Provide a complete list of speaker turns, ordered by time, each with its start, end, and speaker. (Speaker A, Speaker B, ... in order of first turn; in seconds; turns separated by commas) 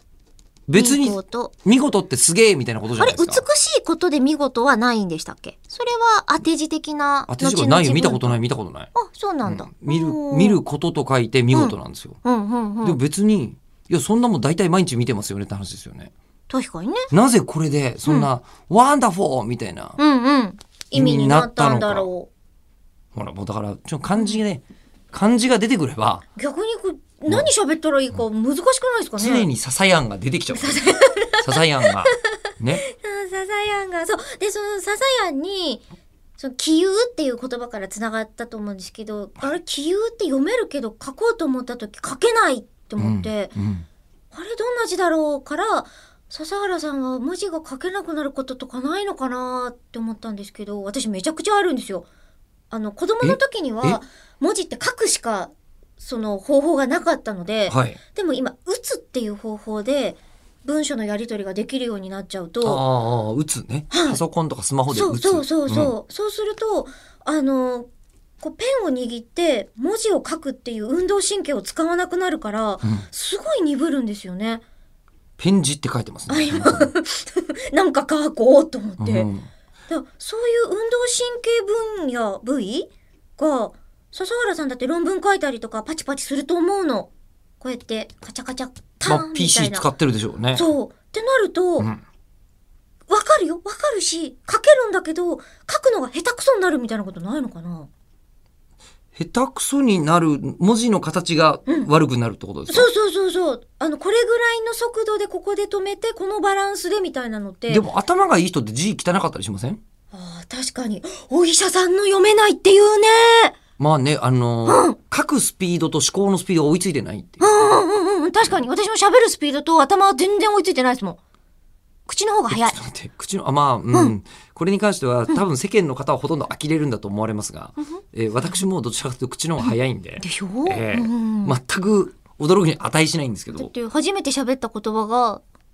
Speaker A: 0.7-3.5, Speaker B: 0.8-1.5, Speaker B: 3.0-8.4, Speaker A: 7.3-8.9, Speaker B: 8.9-10.6, Speaker A: 9.5-12.2, Speaker B: 11.5-13.0, Speaker A: 12.8-16.1, Speaker B: 16.5-17.1, Speaker A: 17.1-20.0, Speaker B: 20.0-22.3, Speaker A: 20.9-22.1, Speaker A: 23.1-26.2, Speaker B: 24.2-24.4, Speaker B: 26.4-29.5, Speaker A: 29.2-32.8, Speaker B: 30.5-32.2, Speaker B: 32.8-35.8, Speaker B: 36.4-43.6, Speaker A: 43.0-43.8, Speaker B: 44.3-52.1, Speaker B: 52.7-62.8, Speaker A: 53.2-54.0, Speaker A: 57.7-58.0, Speaker A: 62.6-65.9, Speaker B: 63.9-64.2, Speaker B: 64.9-67.9, Speaker B: 68.4-74.6, Speaker A: 75.4-76.9, Speaker B: 76.3-79.3, Speaker A: 79.0-79.5, Speaker B: 79.9-89.8, Speaker A: 89.0-90.7, Speaker B: 90.5-91.9, Speaker B: 93.1-97.9, Speaker A: 99.2-102.9, Speaker B: 102.7-107.9, Speaker A: 107.7-109.8, Speaker B: 110.1-113.5, Speaker A: 113.8-117.5, Speaker B: 114.7-115.0, Speaker B: 117.4-121.2, Speaker B: 122.1-122.8, Speaker A: 122.5-133.7, Speaker B: 127.8-128.6, Speaker B: 129.6-131.6, Speaker B: 133.5-135.4